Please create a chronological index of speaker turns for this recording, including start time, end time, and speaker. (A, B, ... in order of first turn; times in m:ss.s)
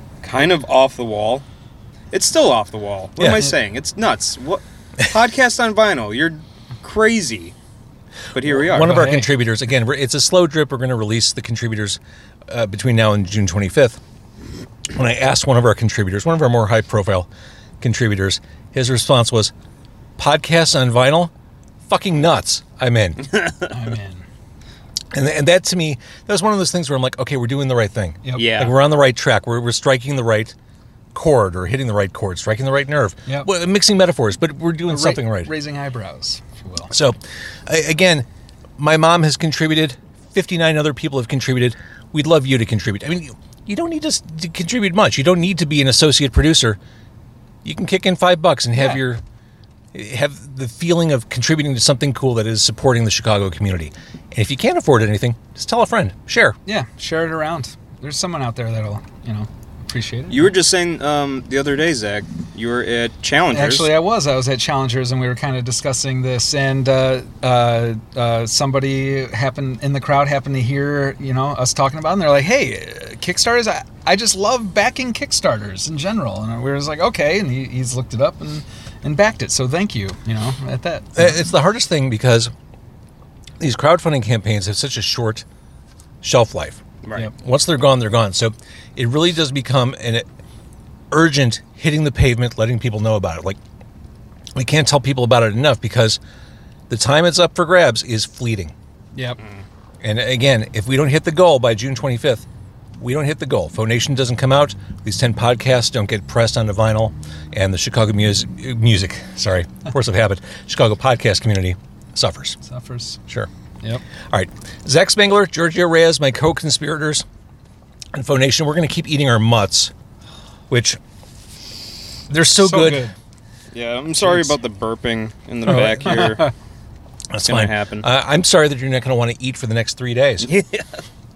0:00.2-0:01.4 A
0:02.1-0:07.5 A
0:03.2-0:03.4 B
0:08.3-0:09.0 A
0:08.4-0:14.0 B
0:08.7-0:09.3 C
0:14.9-0:17.3 B
0:17.8-0:19.5 B
0:20.2-0:21.3 B
0:21.9-0:23.3 B
0:23.7-0:24.2 C
0:25.1-0:30.5 B
0:28.2-0:28.5 C
0:28.3-0:28.7 A
0:31.1-0:35.5 B
0:34.9-0:36.9 C
0:36.9-0:38.2 B
0:38.8-0:46.8 B
0:47.6-0:49.2 B
0:48.7-0:49.0 C
0:49.9-0:56.6 B
0:56.6-1:00.5 C
1:00.3-1:03.9 A
1:03.5-1:21.4 C
1:21.2-1:22.5 B
1:23.6-1:25.4 B
1:26.2-1:30.2 B
1:27.0-1:27.3 A
1:31.1-1:33.6 B
1:34.5-1:36.2 B
1:36.9-1:38.7 B
1:39.1-1:39.4 C
1:40.0-1:42.4 B
1:43.0-1:52.6 B
1:52.6-1:53.2 C
1:54.3-1:57.2 B
1:58.1-1:59.9 B
2:00.7-2:01.0 B
2:02.3-2:03.1 B
2:02.5-2:03.2 C
2:03.7-2:06.5 A
2:05.7-2:06.3 B
2:05.7-2:06.5 C
2:07.3-2:10.5 B
2:07.4-2:08.0 A
2:10.4-2:11.0 A